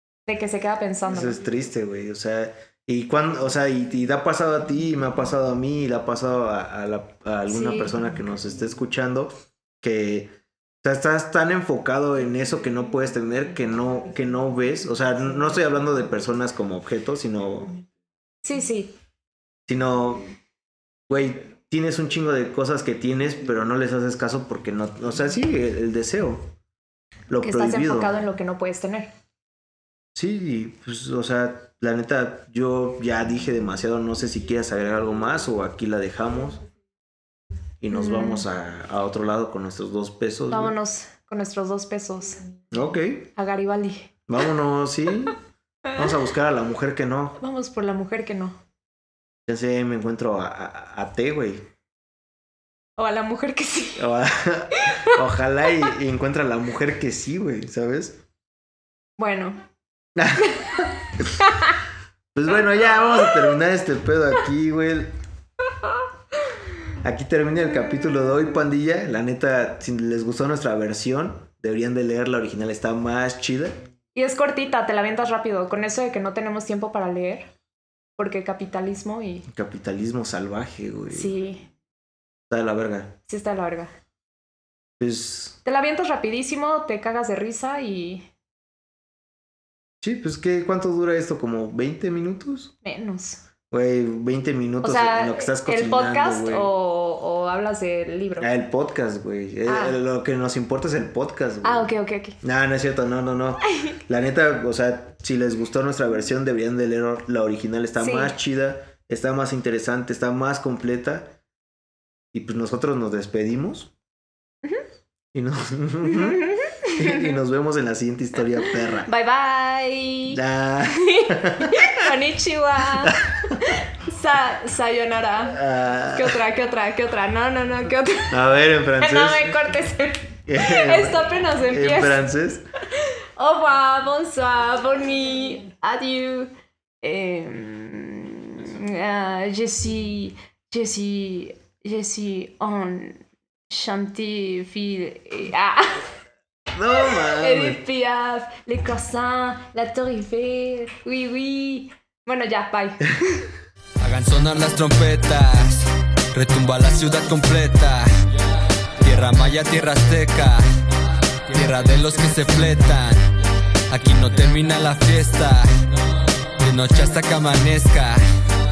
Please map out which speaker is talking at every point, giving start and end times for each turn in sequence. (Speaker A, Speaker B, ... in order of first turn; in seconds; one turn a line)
Speaker A: 0.3-1.4
Speaker B: 1.1-10.3
Speaker A: 7.5-7.9
Speaker B: 10.8-17.7
Speaker A: 18.4-19.0
Speaker B: 19.7-20.3
Speaker B: 21.1-26.5
Speaker B: 27.3-28.1
Speaker A: 27.4-29.1
Speaker B: 30.1-36.6
Speaker B: 37.8-40.7
Speaker A: 37.9-38.5
Speaker A: 40.5-42.4
Speaker B: 42.7-43.3
Speaker A: 43.4-44.1
Speaker B: 44.3-45.4
Speaker A: 45.9-46.1
Speaker B: 45.9-47.4
Speaker A: 47.4-48.6
Speaker B: 49.5-51.6
Speaker A: 53.0-54.1
Speaker B: 54.0-58.2
Speaker A: 54.7-55.2
Speaker A: 59.2-59.6
Speaker B: 60.2-61.3
Speaker A: 60.4-61.8
Speaker B: 62.3-65.1
Speaker A: 63.2-63.5
Speaker B: 67.0-73.8
Speaker A: 74.1-77.5
Speaker A: 78.2-79.5
Speaker B: 79.5-81.3
Speaker A: 81.1-81.7
Speaker B: 82.5-83.2
Speaker A: 83.3-83.9
Speaker B: 85.0-85.6
Speaker A: 85.6-88.3
Speaker B: 90.0-92.7
Speaker A: 92.8-93.4
Speaker B: 93.7-96.7
Speaker A: 94.8-98.5
Speaker B: 98.4-101.9
Speaker A: 99.7-100.0
Speaker A: 101.6-102.4
Speaker B: 102.4-111.3
Speaker A: 108.0-108.3
Speaker B: 112.3-113.9
Speaker B: 115.3-119.1
Speaker A: 116.0-117.4
Speaker A: 118.6-120.4
Speaker B: 120.3-122.1
Speaker A: 120.9-132.2
Speaker B: 123.0-123.7
Speaker B: 125.5-126.4
Speaker B: 128.3-129.6
Speaker B: 130.5-132.6
Speaker A: 132.9-146.1
Speaker B: 146.7-147.8
Speaker A: 146.9-153.5
Speaker C: 154.0-158.3
Speaker C: 159.0-160.7
Speaker C: 161.5-163.3
Speaker C: 163.9-168.2